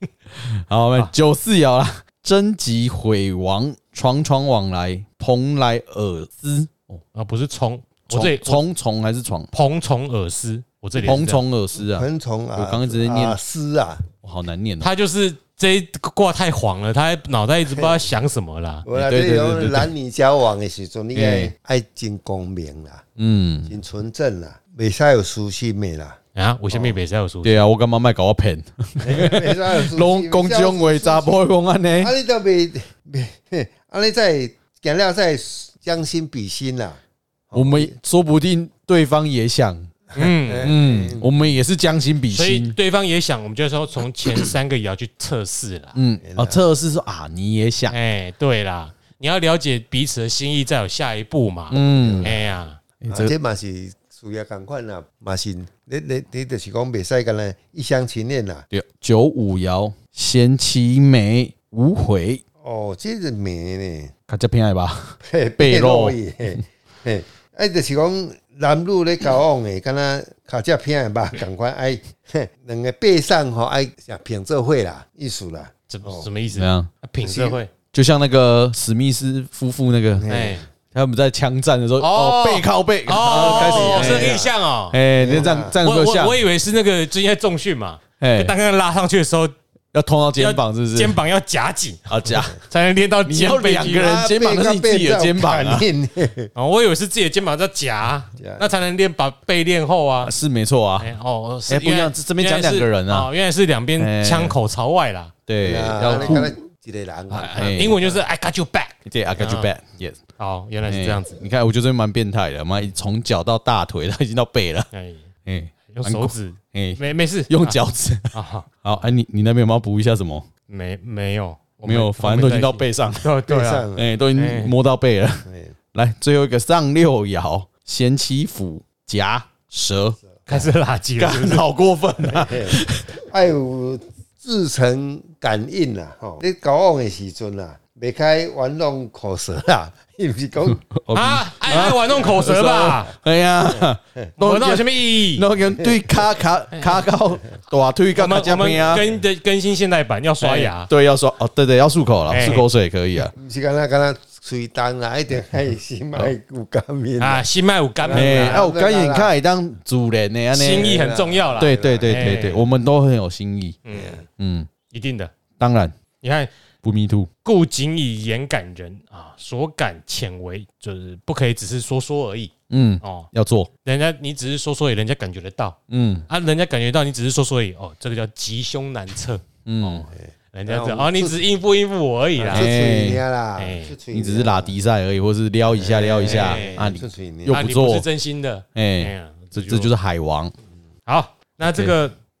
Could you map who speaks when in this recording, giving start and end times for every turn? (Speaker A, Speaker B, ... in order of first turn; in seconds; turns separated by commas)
Speaker A: 0.3-7.0, Speaker B: 7.1-8.6, Speaker A: 8.1-9.5, Speaker B: 9.5-11.4, Speaker A: 11.0-13.4, Speaker C: 11.7-14.1, Speaker A: 14.2-14.9, Speaker B: 14.8-18.9, Speaker C: 17.7-18.1, Speaker C: 18.8-23.1, Speaker A: 18.9-19.9, Speaker A: 21.1-21.5, Speaker A: 23.2-23.7, Speaker C: 23.6-26.2, Speaker B: 26.3-27.6, Speaker A: 27.4-32.1, Speaker C: 29.0-37.9, Speaker A: 37.5-39.9, Speaker C: 40.1-41.3, Speaker B: 40.1-40.8, Speaker A: 40.6-42.8, Speaker B: 42.3-46.0, Speaker A: 45.9-48.0, Speaker C: 46.2-46.6, Speaker B: 47.9-52.8, Speaker A: 51.7-52.4, Speaker C: 51.9-52.4, Speaker A: 53.0-53.3, Speaker C: 53.1-58.6, Speaker A: 58.7-62.4, Speaker C: 62.6-64.1, Speaker A: 64.3-66.6, Speaker C: 65.2-76.3, Speaker B: 75.9-77.7, Speaker A: 76.5-76.9, Speaker C: 77.2-77.6, Speaker A: 77.9-80.3, Speaker C: 80.2-80.6, Speaker B: 80.3-80.6, Speaker A: 80.9-86.4, Speaker B: 82.0-89.5, Speaker C: 83.3-84.5, Speaker C: 85.2-85.8, Speaker A: 88.2-88.5, Speaker A: 89.9-91.2, Speaker B: 90.3-94.1, Speaker A: 92.1-92.6, Speaker A: 93.2-95.8, Speaker C: 93.9-96.5, Speaker B: 96.5-100.3, Speaker C: 98.4-98.7, Speaker A: 100.2-101.1, Speaker B: 101.0-105.3, Speaker A: 101.7-103.3, Speaker A: 104.0-104.5, Speaker A: 105.5-106.5, Speaker C: 105.6-108.2, Speaker B: 106.1-106.4, Speaker B: 107.3-109.7, Speaker A: 107.5-108.0, Speaker A: 109.0-110.2, Speaker B: 110.4-111.4, Speaker A: 110.8-114.9, Speaker B: 114.9-115.3, Speaker A: 115.5-120.5, Speaker B: 115.9-117.8, Speaker B: 118.3-118.7, Speaker B: 120.7-124.7, Speaker A: 121.8-123.3, Speaker C: 123.5-124.1, Speaker A: 123.9-130.2, Speaker C: 125.5-125.7, Speaker B: 130.5-131.7, Speaker A: 131.2-133.2, Speaker C: 132.2-140.8, Speaker A: 140.8-149.0, Speaker B: 141.1-143.1, Speaker B: 144.4-145.4, Speaker C: 145.7-146.2, Speaker B: 146.7-147.0, Speaker B: 148.2-150.9, Speaker C: 148.8-149.0, Speaker A: 150.4-153.3, Speaker B: 152.3-152.7, Speaker C: 153.3-157.4, Speaker B: 157.2-158.6, Speaker C: 158.0-159.3, Speaker A: 158.1-161.0, Speaker B: 160.5-162.6, Speaker C: 160.7-162.5, Speaker A: 161.6-163.8, Speaker B: 163.8-164.2, Speaker C: 163.9-164.2, Speaker A: 164.4-164.7, Speaker B: 164.9-165.3, Speaker A: 165.6-165.9, Speaker B: 166.2-166.5, Speaker A: 166.8-167.3, Speaker B: 167.4-173.3, Speaker A: 172.7-173.7, Speaker B: 173.8-175.8, Speaker A: 175.9-176.2, Speaker B: 176.3-182.7, Speaker A: 179.7-180.1, Speaker C: 180.1-181.4, Speaker C: 182.3-184.7, Speaker A: 182.5-183.2, Speaker B: 183.6-183.9, Speaker A: 184.1-188.1, Speaker C: 185.7-187.6, Speaker B: 186.2-186.9, Speaker B: 187.5-189.9, Speaker A: 188.7-190.5, Speaker B: 191.1-192.1, Speaker A: 191.6-191.9